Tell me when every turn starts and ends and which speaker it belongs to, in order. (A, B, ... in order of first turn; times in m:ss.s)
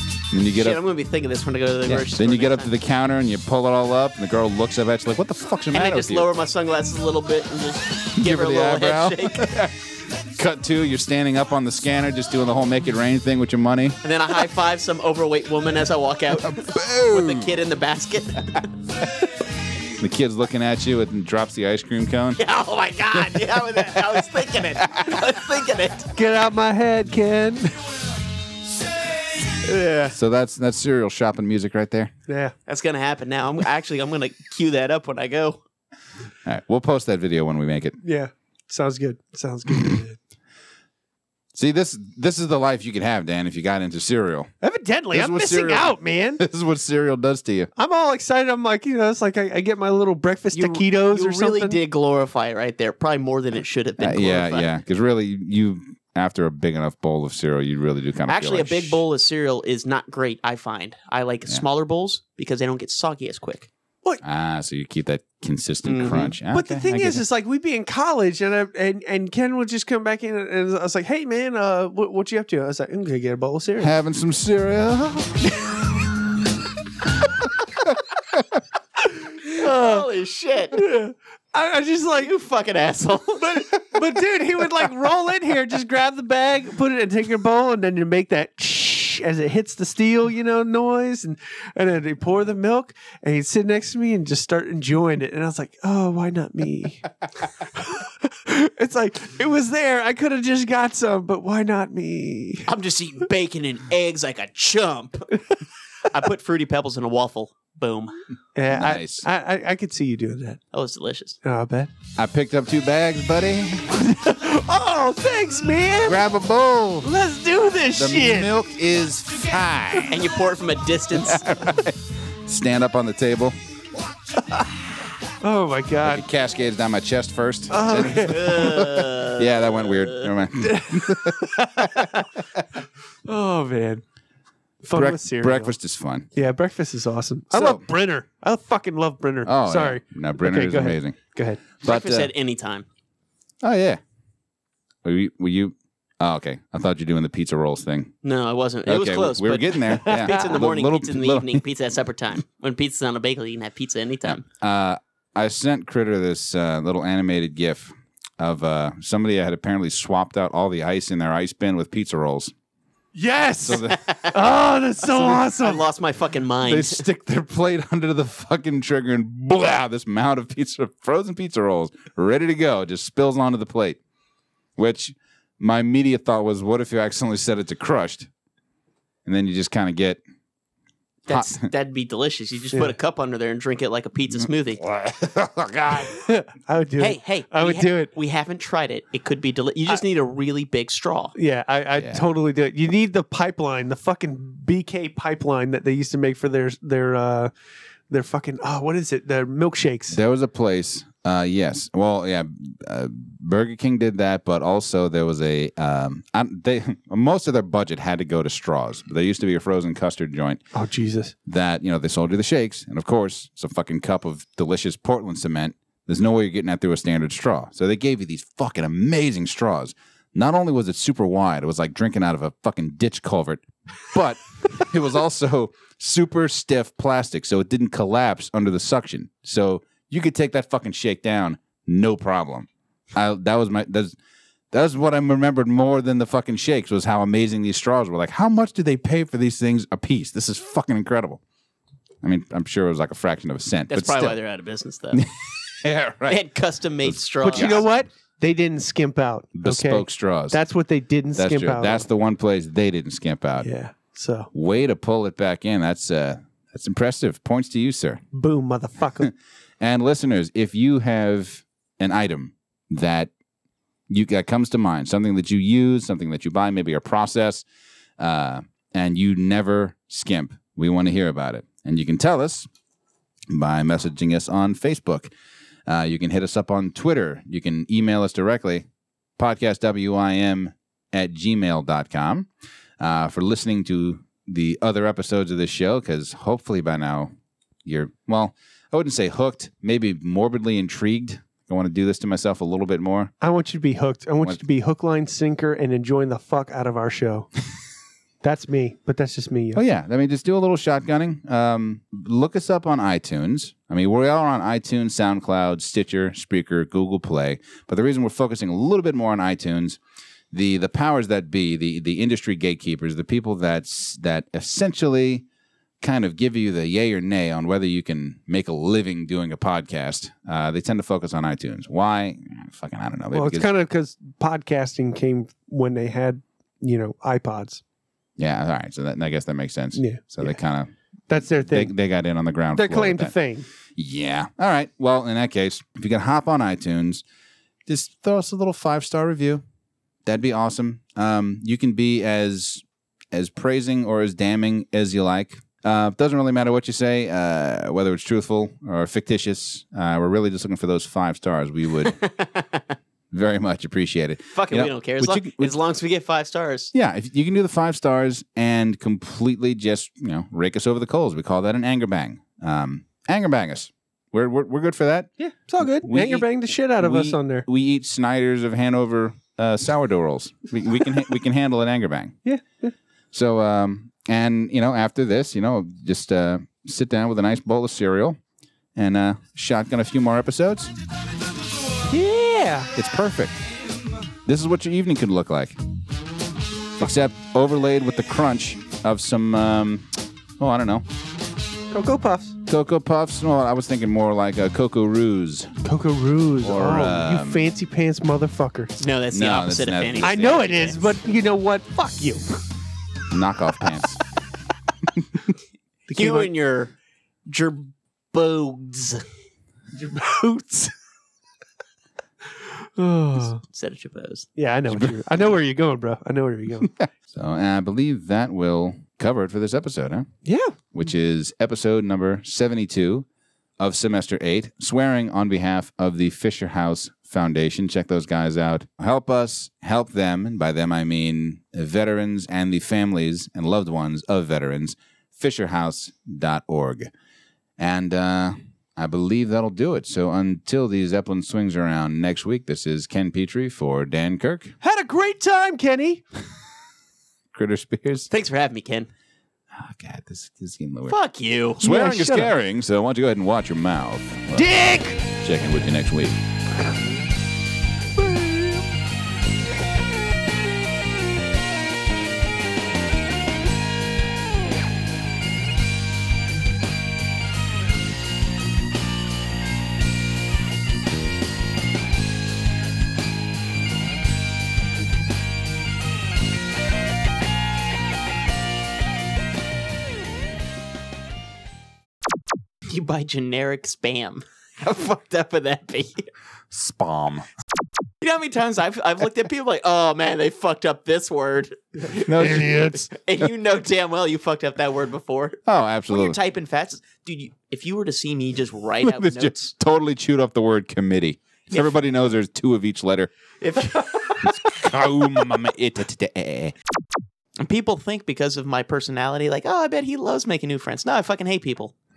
0:00.3-0:00.8 A
0:00.6-0:02.7 B
0:01.8-0:06.3 A
0:05.7-0:09.6 B
0:08.1-0:09.8 A
0:10.3-0:14.0 A
0:14.0-0:18.6 B
0:16.4-0:17.5 A
0:20.0-0:22.4 A
0:22.4-0:26.1 B
0:24.8-0:25.2 A
0:26.1-0:27.8 C
0:29.6-0:30.1 B
0:30.1-0:32.1 A
0:32.3-0:32.5 C
0:32.6-0:35.6 B
0:36.4-0:38.0 A
0:38.0-0:40.2 C
0:41.5-0:44.5 A
0:44.6-0:46.4 C
0:45.1-0:47.7 A
0:47.8-0:51.8 C
0:50.5-0:54.7 B
0:54.0-0:59.0 A
0:58.3-1:03.7 B
1:04.2-1:07.2 A
1:05.8-1:06.3 B
1:06.5-1:13.9 C
1:13.8-1:15.5 A
1:19.5-1:20.8 B
1:19.5-1:20.0 C
1:20.7-1:22.3 C
1:22.2-1:23.7 B
1:23.4-1:42.7 C
1:42.6-1:45.4 B
1:46.0-1:48.2 B
1:48.5-1:50.6 C
1:48.7-1:49.2 A
1:50.7-1:51.4 B
1:51.4-1:51.9 C
1:52.2-1:54.2 A
1:54.1-1:56.2 C
1:56.0-1:57.1 A
1:57.0-1:58.5 C
1:57.9-2:00.1 A
2:00.1-2:01.5 B
2:01.2-2:03.6 A
2:05.4-2:06.2 C
2:06.0-2:12.6 A
2:07.7-2:08.6 C
2:08.0-2:10.3 B
2:10.6-2:12.3 C
2:13.2-2:14.0 C
2:14.8-2:15.7 C
2:14.9-2:16.3 A
2:16.3-2:21.7 C
2:17.5-2:17.8 A
2:19.4-2:21.2 A
2:21.8-2:22.8 B
2:21.8-2:22.3 A
2:23.6-2:24.0 A
2:25.0-2:28.1 A
2:28.2-2:34.4 B
2:28.8-2:31.6 A
2:30.0-2:30.3 C
2:34.2-2:42.5 A
2:43.1-2:45.9 C
2:43.6-2:44.0 A
2:44.0-2:44.3 B
2:45.0-2:47.0 B
2:46.6-2:54.0 A
2:54.8-2:58.3 A
2:59.2-3:00.2 A
3:01.3-3:01.7 A
3:01.3-3:04.8 B
3:04.4-3:06.1 A
3:06.1-3:08.1 C
3:07.0-3:11.3 B
3:11.3-3:17.5 C
3:12.0-3:12.2 A
3:18.1-3:20.2 C
3:20.1-3:30.6 A
3:30.7-3:31.3 C
3:31.4-3:54.1 A
3:54.7-4:01.4 A
4:02.2-4:04.4 A
4:03.9-4:05.2 B
4:05.1-4:06.4 A
4:06.3-4:07.8 B
4:07.0-4:07.8 A
4:07.4-4:12.0 C
4:09.6-4:10.6 A
4:11.4-4:13.7 A
4:13.6-4:14.5 C
4:14.5-4:18.2 A
4:18.3-4:19.3 C
4:19.2-4:23.3 A
4:24.1-4:27.6 A
4:28.2-4:32.7 A
4:33.5-4:35.3 A
4:35.9-4:38.8 A
4:39.4-4:42.5 A
4:43.0-4:47.3 A
4:47.8-4:53.3 A
4:53.4-4:57.5 C
4:58.4-4:59.8 C
4:59.7-5:10.0 A
5:10.5-5:15.4 A
5:16.0-5:23.7 A
5:23.3-5:27.8 C
5:28.4-5:30.9 A
5:29.9-5:30.6 C
5:31.3-5:31.9 C
5:31.6-5:33.3 A
5:32.7-5:33.7 C
5:33.9-5:37.2 A
5:37.9-5:39.6 A
5:40.2-5:52.2 A
5:52.0-5:52.8 B
5:53.3-5:55.7 A
5:54.5-5:56.9 B
5:56.9-6:12.4 A
6:05.4-6:07.7 C
6:12.4-6:12.9 C
6:13.3-6:18.4 A
6:19.0-6:20.9 A
6:22.1-6:22.9 C
6:22.9-6:23.6 A
6:24.4-6:25.8 A
6:27.0-6:31.0 A
6:31.9-6:32.6 C
6:32.7-6:35.7 A
6:35.8-6:39.0 C
6:36.6-6:37.6 A
6:39.0-6:41.0 B
6:39.3-6:40.9 A
6:40.2-6:42.6 C
6:43.3-6:44.2 A
6:46.1-6:46.5 C
6:46.1-6:46.9 B
6:47.4-6:49.2 B
6:49.9-6:50.9 C
6:52.8-6:53.6 C
6:53.6-6:54.5 B
6:54.6-6:56.9 C
6:54.9-6:55.2 A
6:56.8-7:00.3 A
7:00.4-7:00.8 C
7:00.9-7:03.2 A
7:03.8-7:17.1 A
7:17.8-7:24.7 A
7:24.8-7:26.2 C
7:27.5-7:28.3 A
7:28.3-7:29.1 B
7:29.7-7:31.2 A
7:31.1-7:31.8 B
7:31.8-7:36.4 A
7:31.8-7:32.5 C
7:34.5-7:35.2 C
8:02.9-8:06.3 B
8:06.7-8:07.4 A
8:08.2-8:19.7 B
8:12.2-8:13.0 A
8:12.4-8:12.9 C
8:15.6-8:16.4 A
8:19.0-8:23.3 A
8:23.6-8:24.4 B
8:24.4-8:26.7 A
8:27.6-8:31.9 B